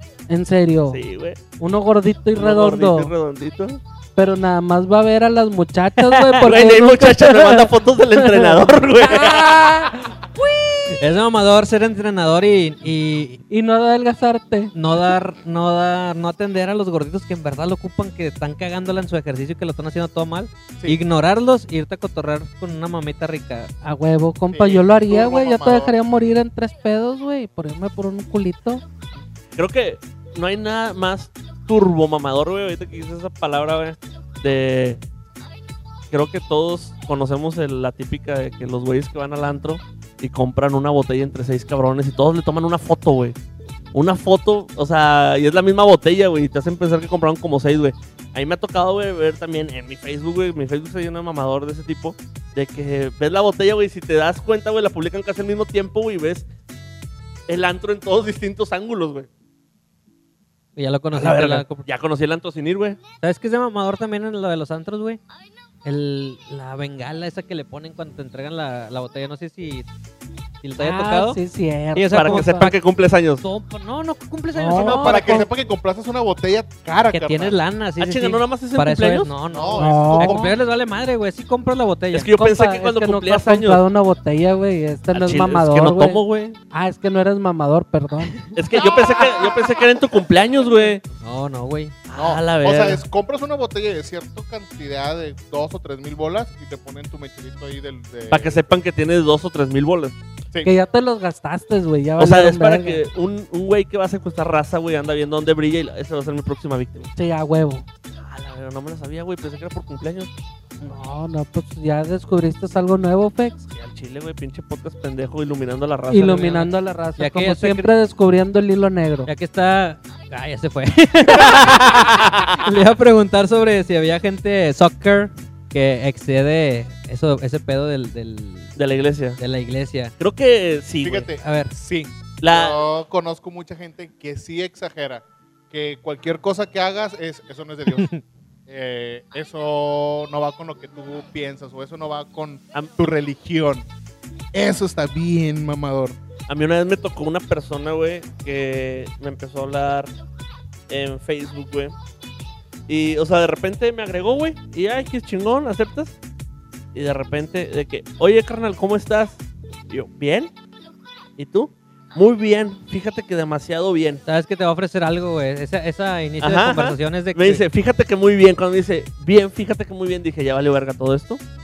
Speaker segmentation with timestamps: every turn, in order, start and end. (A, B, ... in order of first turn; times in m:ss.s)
0:00.3-0:01.0 A
0:00.9-0:01.4 B
0:01.6-0:03.1 A
0:02.4-0:03.8 B
0:04.2-0:11.0 A
0:06.4-0:09.6 B
0:11.0-0:13.4 C
0:13.5-0:14.7 A
0:14.7-0:23.7 C
0:20.8-0:21.0 D
0:23.8-0:28.8 A
0:24.5-0:25.9 D
0:29.6-0:35.0 B
0:36.1-0:43.4 B
0:43.9-0:56.5 B
0:57.5-0:59.3 B
1:00.8-1:01.8 C
1:01.1-1:03.0 B
1:03.2-1:05.2 C
1:05.8-1:09.9 C
1:10.6-1:11.4 C
1:10.8-1:12.7 A
1:12.0-1:12.8 C
1:12.1-1:13.4 B
1:13.4-1:15.4 C
1:14.5-1:15.5 A
1:14.8-1:17.6 D
1:17.1-1:22.3 C
1:18.0-1:19.3 B
1:19.5-1:20.5 D
1:19.8-1:20.6 A
1:22.1-1:23.8 B
1:22.4-1:28.4 A
1:25.1-1:26.6 B
1:28.5-1:31.0 B
1:31.2-1:32.0 C
1:32.1-1:33.0 B
1:32.2-1:38.6 D
1:38.3-1:40.2 B
1:40.6-1:43.0 A
1:42.2-1:47.1 B
1:47.2-1:47.8 A
1:48.2-1:50.3 B
1:50.8-1:53.7 A
1:53.7-1:56.7 B
1:56.1-1:59.3 A
1:57.2-1:57.9 C
1:59.3-2:08.7 C
2:01.4-2:02.6 B
2:08.8-2:09.4 B
2:09.4-2:10.1 C
2:10.2-2:11.3 B
2:11.0-2:18.1 D
2:11.4-2:11.7 C
2:12.4-2:12.8 B
2:17.9-2:18.2 C
2:18.7-2:23.9 D
2:24.5-2:26.2 D
2:26.5-2:30.1 B
2:30.9-2:32.0 B
2:32.9-2:36.2 B
2:36.9-2:40.5 B
2:41.4-2:44.2 B
2:44.3-2:47.6 C
2:46.4-2:51.4 B